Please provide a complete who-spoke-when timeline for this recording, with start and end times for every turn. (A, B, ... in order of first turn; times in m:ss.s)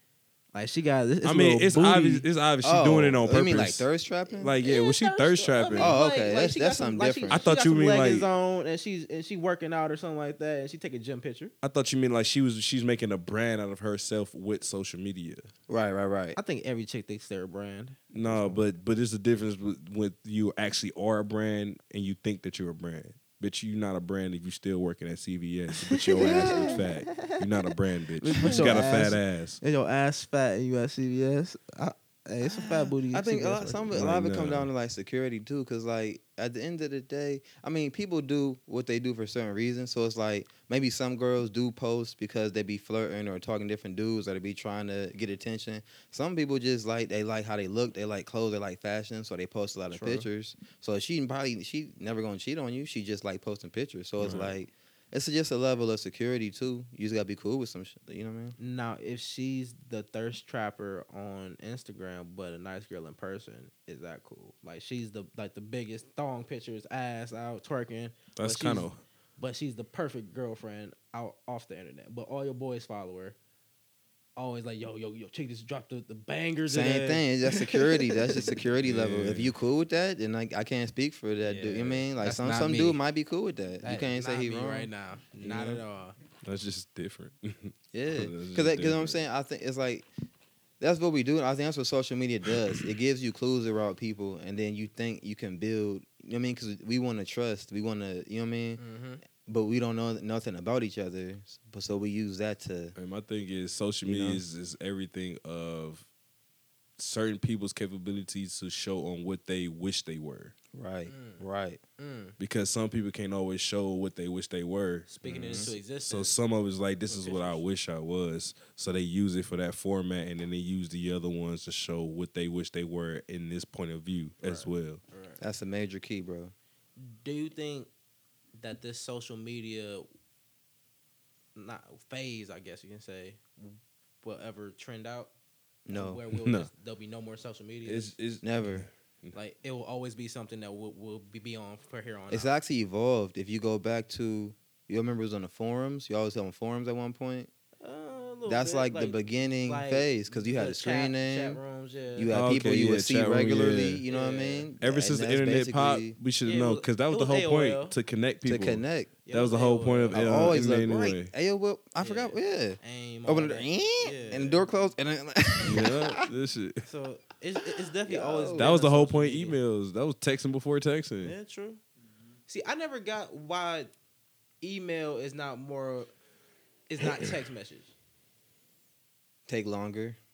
0:00.5-0:02.2 A
0:01.2-0:03.9 B
0:02.6-0:04.6 C
0:04.4-0:06.0 B
0:04.6-0:11.5 A
0:05.8-0:07.4 C
0:07.3-0:08.3 B
0:11.6-0:15.5 B
0:15.7-0:16.4 C
0:16.4-0:18.7 A
0:18.1-0:29.6 B
0:25.9-0:27.4 A
0:26.2-0:26.8 C
0:28.2-0:34.0 A
0:28.4-0:29.0 C
0:32.4-0:58.6 C
0:33.9-0:34.7 B
0:49.9-0:50.3 A
0:54.2-0:54.5 B
0:58.6-1:13.4 A
1:08.4-1:09.0 B
1:14.4-1:18.6 A
1:16.7-1:24.9 C
1:18.8-1:19.5 B
1:21.4-1:23.0 A
1:23.8-1:26.2 A
1:25.5-1:25.8 B
1:26.4-1:29.2 B
1:27.9-1:30.1 C
1:30.8-1:38.8 C
1:38.8-1:39.2 A
1:39.4-1:43.0 C
1:43.0-1:46.1 B
1:44.0-1:44.4 C
1:47.0-1:50.5 B
1:50.7-1:51.8 C
1:51.1-1:51.4 A
1:52.0-1:52.4 A
1:52.4-2:05.0 B
1:55.1-1:56.3 A
1:55.2-1:55.7 C
1:57.1-1:57.6 A
2:04.4-2:05.4 A
2:05.4-2:06.5 C
2:07.0-2:07.9 A
2:08.6-2:10.1 A
2:11.6-2:15.3 A
2:15.9-2:16.2 C
2:15.9-2:18.2 A
2:16.3-2:16.7 B
2:17.8-2:19.4 B
2:18.4-2:18.9 C
2:19.3-2:22.5 A
2:22.3-2:27.5 C
2:27.8-2:32.4 A
2:28.5-2:31.6 C
2:32.2-2:36.2 C
2:32.3-2:34.0 B
2:34.1-2:34.7 A
2:34.8-2:41.3 B
2:36.4-2:38.0 A
2:38.4-2:39.1 C
2:39.3-2:40.7 A
2:40.1-2:46.2 C
2:42.0-2:44.7 A
2:45.6-2:46.8 B
2:46.8-2:49.6 A
2:48.0-2:48.7 C
2:48.6-2:51.4 B
2:51.2-2:51.8 A
2:52.5-2:53.9 A
2:54.6-2:56.1 A
2:56.9-2:57.9 A
2:59.5-3:00.2 C